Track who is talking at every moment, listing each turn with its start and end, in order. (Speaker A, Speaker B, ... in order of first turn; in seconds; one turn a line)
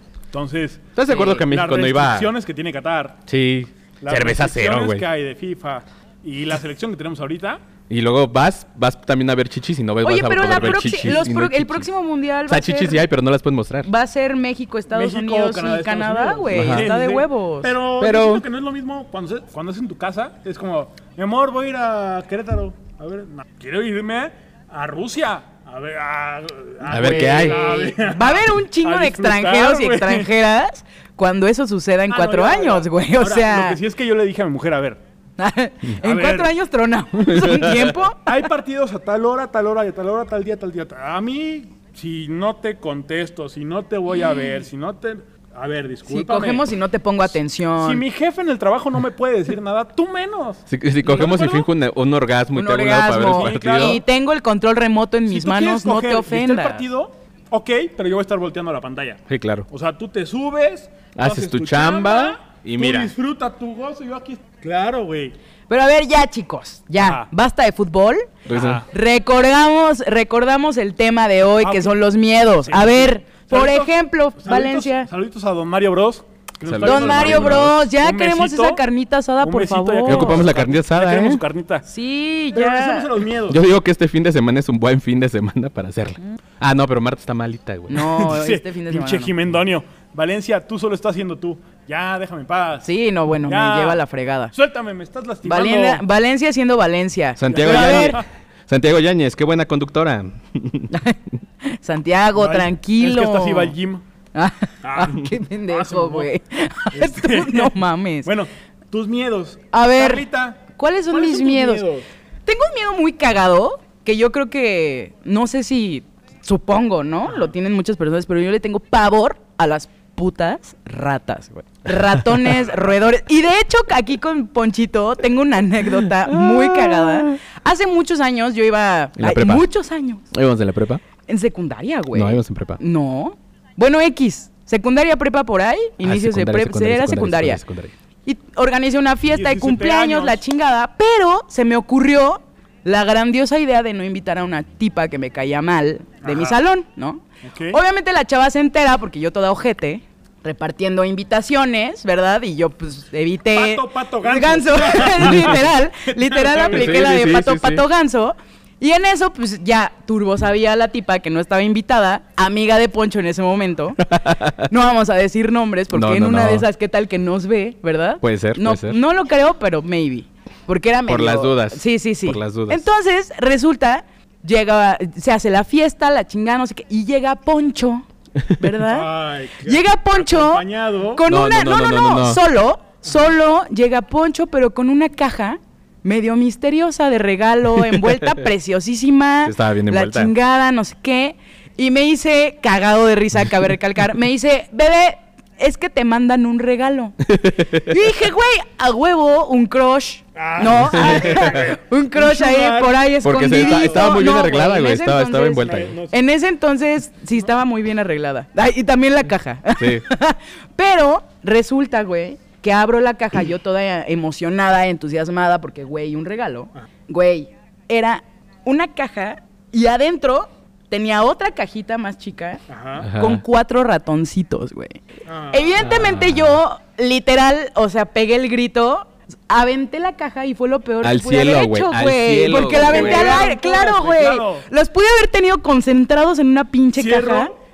Speaker A: 0.3-3.2
Speaker B: 0.9-2.3
Speaker B: 3.3-5.1
Speaker A: 4.0-7.6
Speaker B: 7.9-11.9
Speaker C: 10.0-13.0
Speaker A: 10.4-11.2
Speaker B: 12.5-13.9
Speaker C: 13.8-17.7
Speaker A: 14.9-30.3
Speaker B: 16.5-16.9
Speaker B: 18.0-18.4
Speaker B: 26.8-27.6
Speaker C: 26.9-33.8
Speaker A: 32.1-35.0
Speaker C: 35.4-38.3
Speaker A: 36.0-36.5
Speaker B: 37.3-37.9
Speaker A: 38.2-46.7
Speaker C: 46.0-48.0
Speaker A: 47.8-51.7
Speaker B: 50.7-54.0
Speaker C: 52.5-56.8
Speaker A: 53.1-54.0
Speaker A: 55.3-65.3
Speaker B: 59.3-59.7
Speaker B: 61.1-63.1
Speaker C: 65.7-68.3
Speaker A: 67.0-67.3
Speaker B: 68.5-68.8
Speaker A: 68.5-68.9
Speaker C: 68.9-75.1
Speaker A: 71.6-78.8
Speaker B: 76.6-77.8
Speaker C: 76.8-80.5
Speaker A: 79.4-81.8
Speaker B: 80.0-81.4
Speaker C: 81.8-83.1
Speaker A: 82.5-83.6
Speaker B: 83.5-88.0
Speaker C: 87.9-89.3
Speaker A: 87.9-92.9
Speaker C: 92.8-94.5
Speaker A: 93.5-94.0
Speaker A: 94.5-96.0
Speaker C: 95.4-98.2
Speaker B: 97.4-101.0
Speaker A: 97.5-98.3
Speaker C: 100.9-103.7
Speaker A: 102.3-104.0
Speaker C: 104.3-108.3
Speaker A: 104.8-106.3
Speaker A: 106.9-112.0
Speaker C: 109.7-111.8
Speaker C: 112.5-130.3
Speaker A: 117.2-117.5
Speaker B: 126.1-127.4
Speaker B: 129.2-129.6
Speaker B: 130.3-131.0
Speaker C: 131.3-137.6
Speaker B: 132.1-132.8
Speaker B: 136.0-137.9
Speaker C: 138.2-164.0
Speaker A: 139.3-140.4
Speaker A: 146.2-146.6
Speaker A: 147.4-147.8
Speaker A: 153.5-157.1
Speaker B: 156.6-157.8
Speaker B: 164.0-164.7
Speaker C: 164.5-179.1
Speaker B: 165.9-166.7
Speaker B: 168.2-169.0
Speaker B: 171.1-172.8
Speaker A: 178.9-181.2
Speaker C: 179.6-237.5
Speaker B: 181.2-182.4
Speaker B: 189.4-190.3
Speaker B: 197.2-198.0
Speaker A: 200.3-204.1
Speaker B: 200.9-201.7
Speaker B: 203.2-206.0
Speaker A: 205.7-206.1
Speaker B: 209.8-210.0
Speaker A: 222.7-223.1
Speaker B: 223.0-223.4
Speaker A: 225.2-225.9
Speaker B: 225.8-226.6
Speaker B: 231.0-233.5
Speaker A: 232.6-234.7
Speaker A: 236.9-237.5